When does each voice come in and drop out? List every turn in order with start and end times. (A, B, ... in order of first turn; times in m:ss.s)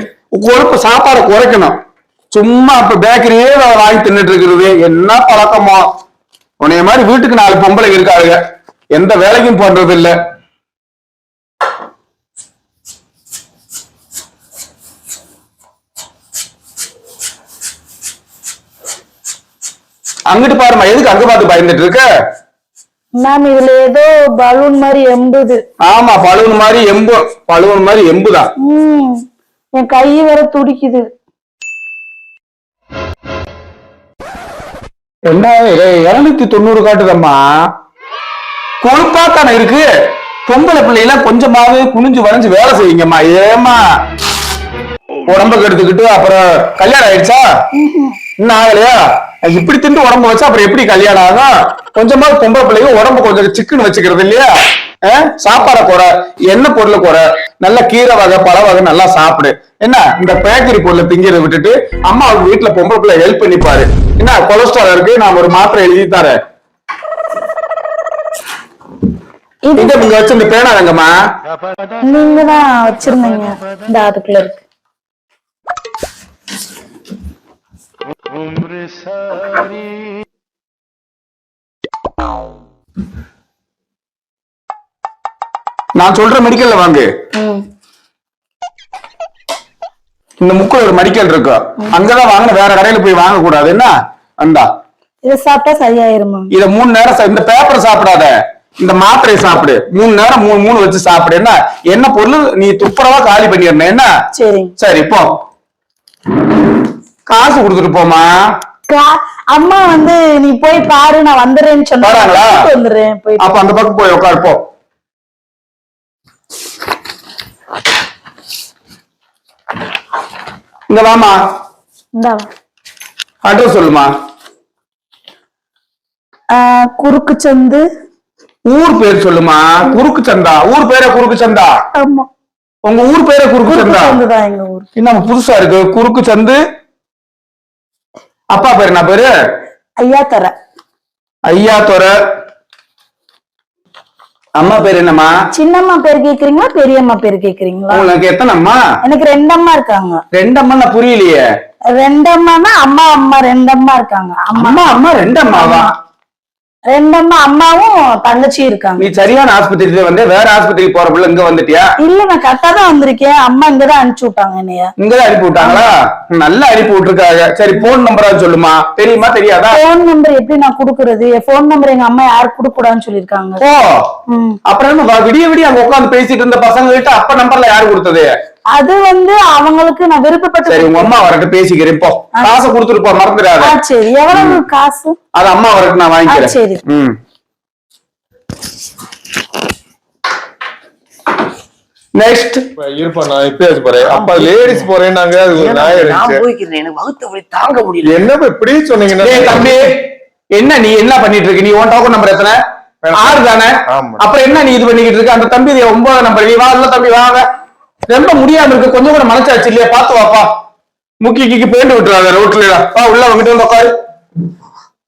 0:00.4-0:01.7 A
0:02.3-0:05.8 A
0:06.6-0:08.4 A
0:08.9-0:10.1 A
0:20.3-0:22.0 A
0:23.2-0:25.6 B
0:25.8-0:28.5 A
0:28.6-0:29.2 B
0:29.8-0:31.0 B
0:35.3-0:37.4 A
0:38.8-0:39.8 A
0:40.5-0:43.8 A
0:45.3-0:47.4 A
0:47.7-0:48.2 B
0:48.4-0:54.5 A
0:55.0-1:06.4 A
1:09.6-1:10.1 B
1:09.8-1:11.1 A
1:12.0-1:14.6 B
1:26.0-1:27.1 A
1:27.3-1:27.6 B
1:30.4-1:34.6 A
1:35.2-1:36.5 B
1:36.5-1:44.1 A
1:44.3-1:44.7 B
1:44.8-1:45.3 A
1:47.3-1:48.3 A
1:48.9-1:53.6 B
1:52.0-1:52.6 A
1:53.4-1:54.6 A
2:00.9-2:01.3 A
2:02.2-2:02.5 B
2:03.4-2:04.1 A
2:06.5-2:07.8 B
2:08.7-2:11.7 A
2:11.9-2:12.3 B
2:12.8-2:14.2 A
2:13.6-2:14.9 B
2:15.0-2:16.6 A
2:18.5-2:19.3 A
2:20.0-2:20.5 B
2:21.4-2:22.1 A
2:24.6-2:25.3 A
2:25.5-2:28.1 B
2:27.9-2:28.8 A
2:29.0-2:30.2 B
2:30.3-2:31.4 A
2:31.9-2:35.9 B
2:34.5-2:35.9 A
2:36.9-2:39.0 B
2:39.0-2:41.9 A
2:42.0-2:44.9 B
2:45.0-2:49.8 A
2:49.7-2:53.6 B
2:53.6-2:53.9 A
2:54.3-2:54.6 B
2:54.7-2:58.3 A
2:58.7-3:01.3 B
3:00.6-3:03.7 A
3:03.6-3:05.1 B
3:04.3-3:04.6 A
3:05.3-3:07.2 A
3:06.3-3:06.8 B
3:12.2-3:12.6 A
3:12.8-3:16.4 C
3:14.0-3:14.9 D
3:15.5-3:18.3 D
3:18.0-3:19.7 C
3:19.2-3:20.0 A
3:20.5-3:22.6 A
3:23.0-3:24.2 C
3:23.2-3:27.4 A
3:28.1-3:30.5 A
3:31.2-3:33.9 A